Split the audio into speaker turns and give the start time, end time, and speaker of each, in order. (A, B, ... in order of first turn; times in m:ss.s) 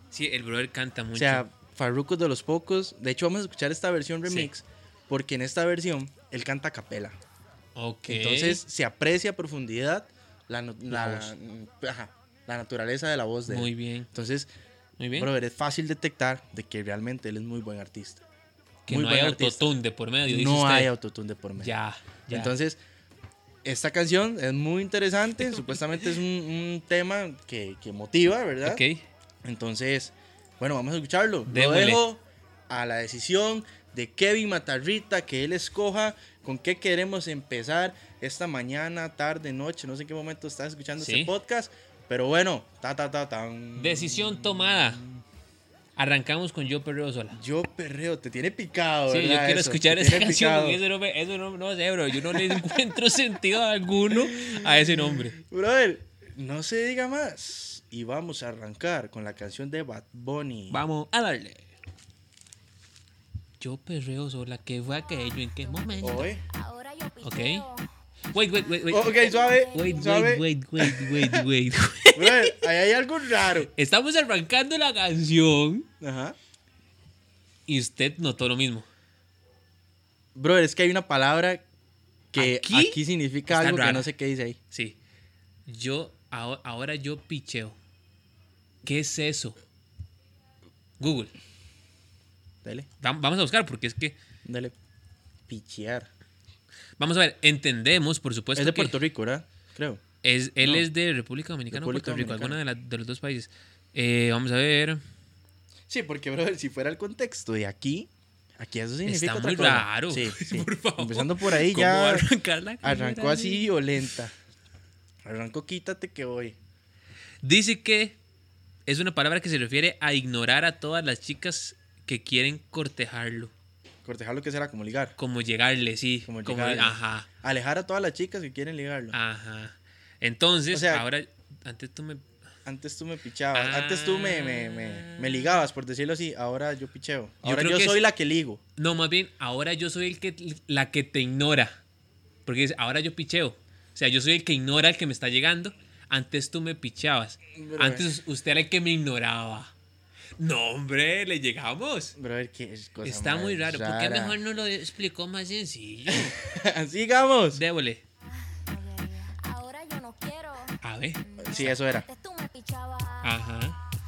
0:00.1-0:01.5 A
0:01.1-0:07.2 B
0:04.3-0:04.5 A
0:07.8-0:08.6 A
0:08.1-0:14.5 B
0:10.9-0:11.3 A
0:13.5-0:14.1 A
0:15.0-0:15.3 A
0:15.2-0:18.2 B
0:18.9-0:20.9 A
0:18.9-0:19.7 B
0:20.3-0:21.7 B
0:21.6-0:22.5 A
0:22.3-0:22.8 B
0:23.6-0:28.8 B
0:25.5-0:26.1 A
0:28.6-0:29.1 A
0:29.4-0:45.2 B
0:31.5-0:32.0 A
0:41.0-0:41.3 A
0:43.8-0:45.0 A
0:46.0-0:47.4 A
0:47.3-0:50.8 B
0:49.1-0:55.4 A
0:52.2-0:52.8 B
0:54.1-1:00.8 B
1:00.7-1:01.7 A
1:03.6-1:06.3 A
1:05.8-1:07.9 C
1:06.0-1:06.4 B
1:07.2-1:07.7 A
1:08.3-1:12.7 A
1:08.8-1:10.3 C
1:08.9-1:11.4 B
1:12.2-1:13.7 B
1:13.7-1:15.9 A
1:16.0-1:16.4 B
1:17.7-1:18.9 A
1:20.4-1:21.6 B
1:22.3-1:24.6 B
1:22.4-1:24.1 A
1:24.7-1:25.0 A
1:25.7-1:27.8 A
1:28.8-1:29.6 A
1:31.0-1:31.3 A
1:33.0-1:34.2 A
1:34.4-1:34.7 B
1:35.5-1:36.1 B
1:37.0-1:39.0 A
1:38.6-1:40.0 B
1:40.2-1:45.0 A
1:41.7-1:42.6 B
1:45.9-1:52.3 B
1:49.0-1:53.7 A
1:52.8-1:54.4 B
1:55.2-1:56.6 B
1:57.4-1:58.2 A
1:58.9-2:03.5 A
2:04.0-2:05.2 B
2:05.2-2:07.3 A
2:06.3-2:09.2 B
2:09.1-2:12.3 A
2:10.7-2:11.0 B
2:12.7-2:18.6 B
2:13.5-2:15.7 A
2:17.4-2:18.0 A
2:18.8-2:21.8 A
2:22.5-2:29.7 A
2:27.6-2:28.1 B
2:30.4-2:32.2 A
2:32.2-2:34.4 B
2:33.0-2:36.4 A
2:36.1-2:37.6 B
2:37.5-2:38.0 A
2:38.3-2:43.8 C
2:40.8-2:41.8 A
2:41.4-2:42.1 B
2:43.2-2:43.8 A